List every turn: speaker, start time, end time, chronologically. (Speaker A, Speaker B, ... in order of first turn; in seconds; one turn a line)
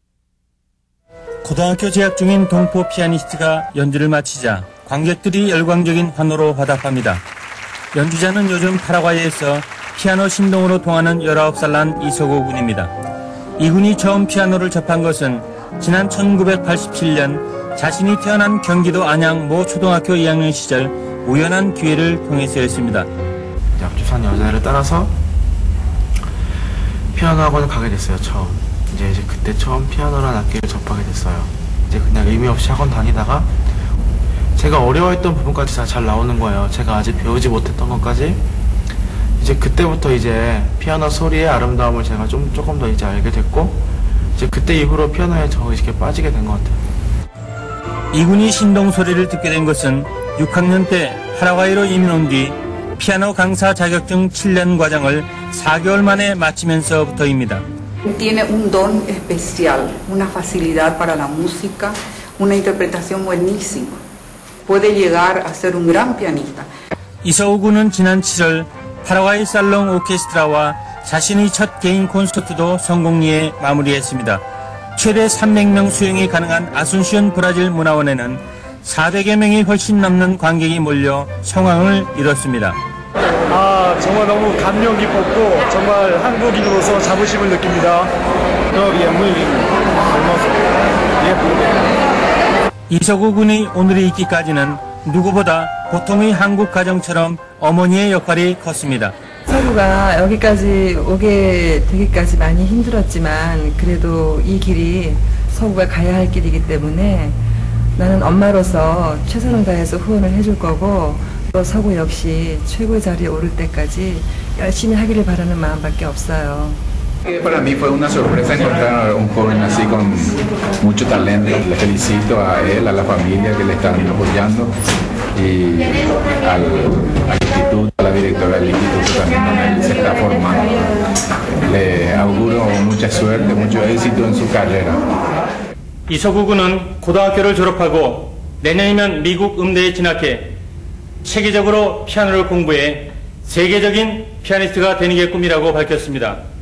Speaker A: 1.4-7.2
Speaker A: 7.9-12.9
Speaker A: 13.6-23.1
Speaker B: 23.8-25.1
Speaker B: 27.1-33.5
Speaker B: 34.5-38.4
Speaker B: 39.4-43.8
Speaker B: 44.4-46.8
Speaker A: 48.1-57.6
Speaker C: 58.0-64.0
Speaker C: 64.7-66.7
Speaker A: 67.2-74.4
Speaker A: 75.0-82.8
Speaker D: 83.5-88.1
Speaker D: 88.8-90.6
Speaker D: 91.2-91.5
Speaker A: 92.9-99.1
Speaker E: 99.5-107.4
Speaker E: 108.0-116.8
Speaker F: 117.3-124.7
Speaker F: 125.3-131.0
Speaker F: 131.6-135.1
Speaker A: 136.1-140.6
Speaker A: 141.2-146.4